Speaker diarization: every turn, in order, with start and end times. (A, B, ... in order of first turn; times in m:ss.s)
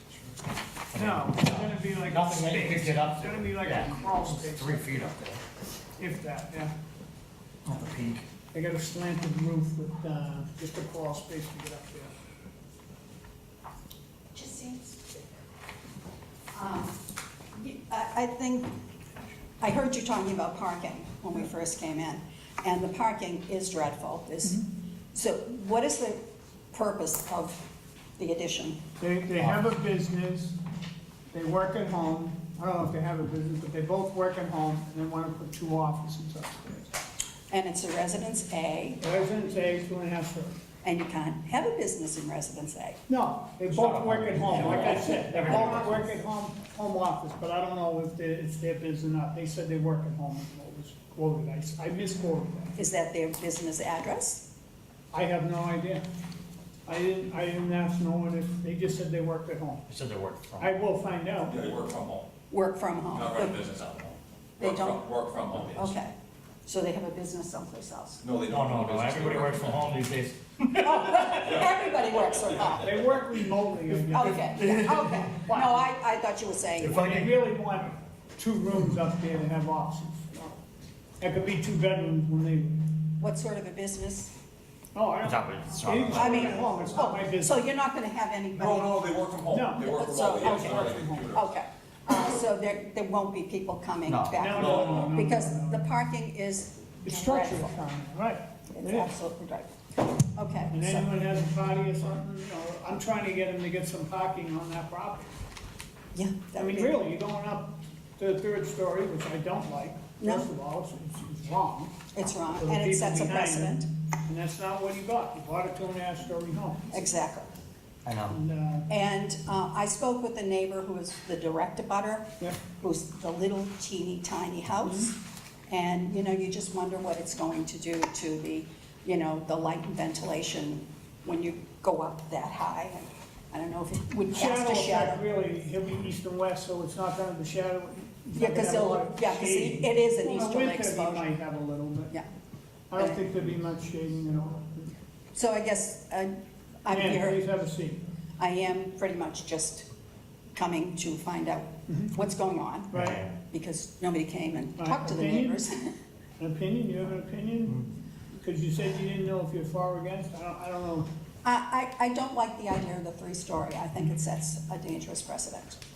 0:00.9-0:05.4 A
0:00.9-0:05.0 B
0:06.0-0:06.7 B
0:07.7-0:08.2 A
0:08.5-0:12.1 B
0:14.3-0:15.2 C
0:16.5-0:17.0 C
0:17.6-0:18.7 C
0:19.6-0:27.7 C
0:28.2-0:28.8 C
0:29.0-0:30.6 B
0:31.3-0:36.9 B
0:37.5-0:39.0 C
0:39.0-0:40.6 B
0:40.8-0:43.0 C
0:43.1-0:52.8 B
0:43.7-0:46.1 A
0:52.8-0:54.4 C
0:55.1-0:56.1 B
0:56.9-0:59.9 B
0:59.9-1:00.8 A
1:00.6-1:01.7 B
1:01.5-1:02.3 D
1:02.5-1:03.7 C
1:03.1-1:06.0 D
1:04.6-1:06.1 C
1:06.7-1:08.2 C
1:08.2-1:09.8 D
1:08.5-1:11.4 A
1:10.8-1:13.2 C
1:11.4-1:12.9 D
1:12.8-1:15.9 B
1:14.1-1:17.2 C
1:14.1-1:15.2 A
1:16.8-1:17.5 A
1:16.9-1:20.3 B
1:21.2-1:22.8 B
1:23.2-1:24.3 C
1:25.0-1:27.6 B
1:25.2-1:26.9 A
1:26.0-1:37.8 C
1:28.6-1:31.5 D
1:29.5-1:31.3 B
1:34.0-1:34.6 A
1:34.4-1:35.8 B
1:34.6-1:35.0 D
1:37.0-1:39.1 B
1:38.7-1:41.2 C
1:40.7-1:45.4 B
1:46.1-1:47.0 C
1:46.6-1:52.0 B
1:50.2-1:50.5 C
1:52.1-1:53.9 C
1:52.6-1:56.9 B
1:56.9-1:57.5 C
1:58.0-1:58.4 A
1:58.3-1:58.9 B
1:58.9-2:05.2 C
2:04.8-2:05.1 B
2:05.7-2:15.2 C
2:14.3-2:22.2 B
2:18.4-2:21.3 C
2:22.9-2:24.9 B
2:23.0-2:23.2 C
2:25.3-2:27.4 C
2:26.9-2:28.0 B
2:28.4-2:29.9 C
2:30.6-2:36.0 C
2:32.9-2:33.2 B
2:33.0-2:33.3 A
2:34.8-2:35.6 B
2:36.4-2:41.1 B
2:41.4-2:45.8 C